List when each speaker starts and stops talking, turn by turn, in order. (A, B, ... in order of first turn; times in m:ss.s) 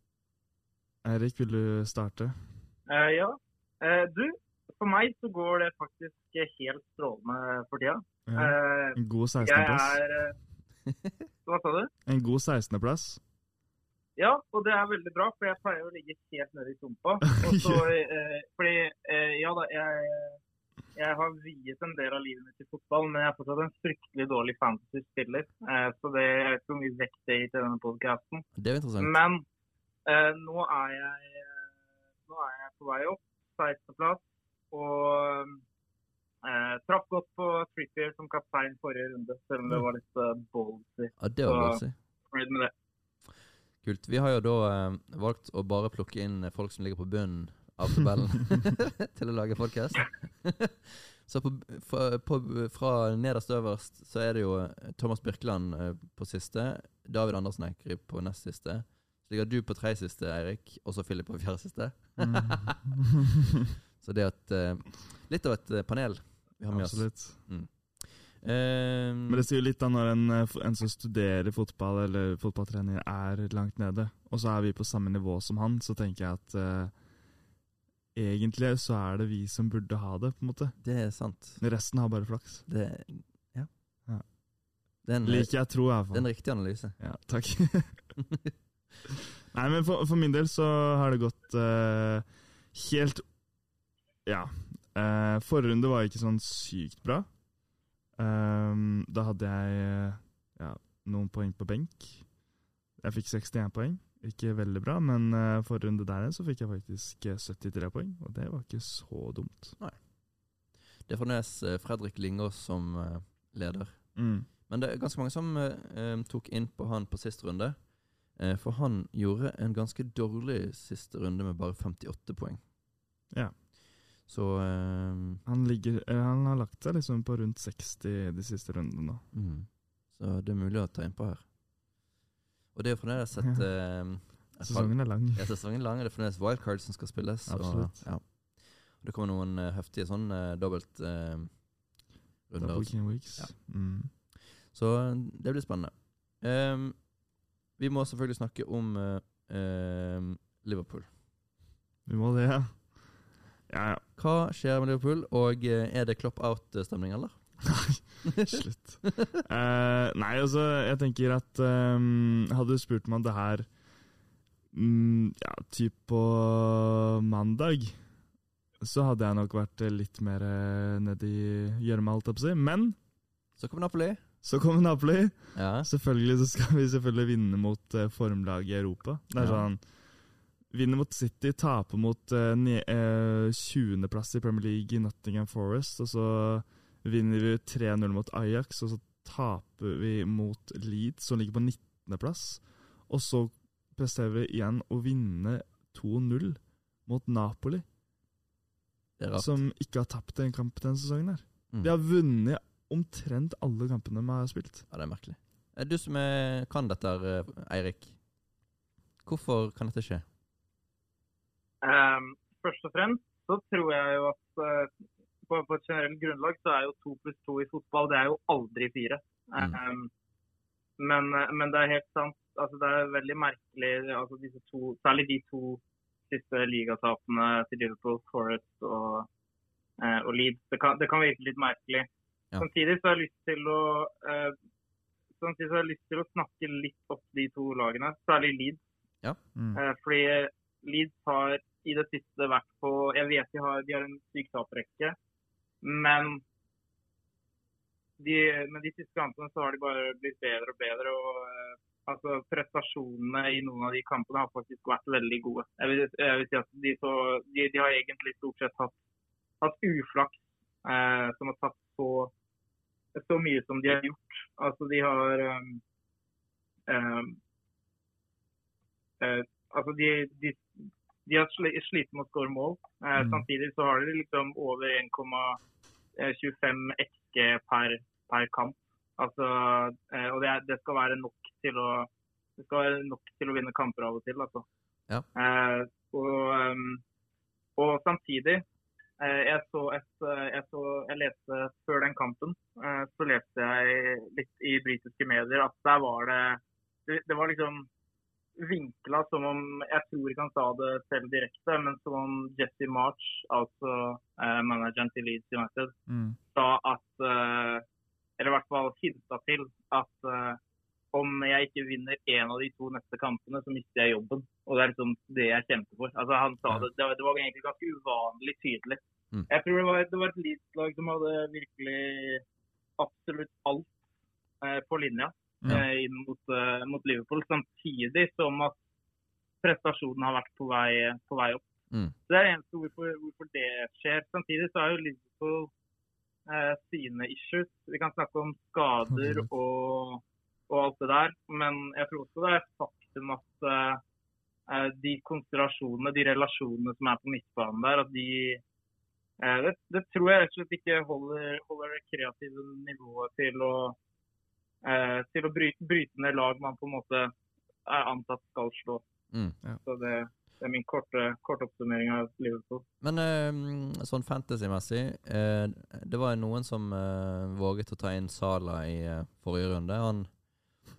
0:01.0-0:02.6 A
0:02.9-0:10.4 B
0:08.3-0:10.0 A
0:11.4-0:11.9 B
0:12.0-0:13.2 A
0:14.2-0:20.4 B
0:17.4-0:17.8 A
0:20.9-0:28.5 B
0:28.5-0:29.2 C
0:29.0-0:29.4 B
0:30.0-0:31.6 B
0:32.3-0:35.6 B
0:36.4-0:42.7 B
0:41.2-0:42.0 C
0:43.8-1:02.8 C
1:02.2-1:02.9 A
1:04.0-1:09.4 C
1:06.7-1:07.4 A
1:09.3-1:17.0 A
1:18.1-1:22.6 A
1:20.8-1:21.6 C
1:22.6-1:23.7 C
1:24.0-1:24.4 A
1:25.0-1:27.0 C
1:25.2-1:28.1 A
1:29.5-1:33.3 A
1:34.2-1:37.5 A
1:38.2-1:42.3 A
1:43.0-1:49.8 A
1:49.8-2:02.6 C
1:54.1-1:54.5 A
2:03.3-2:03.6 A
2:04.2-2:05.4 C
2:05.4-2:09.3 A
2:09.3-2:11.5 C
2:12.7-2:21.7 C
2:13.4-2:15.5 A
2:17.5-2:18.1 A
2:22.5-2:27.2 C
2:22.6-2:24.1 A
2:27.7-2:31.1 C
2:32.0-2:34.0 A
2:34.1-2:38.6 C
2:37.7-2:43.8 A
2:44.7-2:48.1 A
2:48.8-2:53.0 A
2:53.6-2:54.2 C
2:54.4-3:17.8 A
2:55.5-2:55.9 C
2:59.4-2:59.7 C
3:19.2-3:19.6 C
3:19.4-3:24.9 A
3:24.9-3:28.2 C
3:29.2-3:30.2 C
3:31.8-3:34.9 B
3:35.4-3:40.1 B
3:41.0-3:49.3 B
3:50.0-3:52.1 B
3:52.6-3:54.6 B
3:55.4-3:58.8 B
3:59.7-4:05.2 B
4:05.8-4:06.4 B
4:08.2-4:19.0 B
4:19.6-4:22.3 B
4:23.1-4:25.8 B
4:26.9-4:27.4 B
4:29.2-4:35.6 B
4:33.2-4:33.4 A
4:36.2-4:44.6 B
4:45.3-4:47.0 B
4:47.8-4:48.6 B
4:49.2-4:57.9 B
4:58.6-5:05.9 B
5:06.1-5:06.4 A
5:06.5-5:07.8 B
5:08.4-5:10.6 B
5:11.1-5:22.4 B
5:23.0-5:23.9 B
5:24.6-5:28.8 B
5:29.6-5:31.7 B
5:32.3-5:35.7 B
5:36.4-5:44.0 B
5:39.2-5:39.5 A
5:44.7-5:48.6 B
5:49.4-5:54.0 B
5:54.8-5:57.3 B
5:57.8-5:59.0 B
5:59.3-5:59.6 C
5:59.8-6:02.8 B
6:03.0-6:10.4 C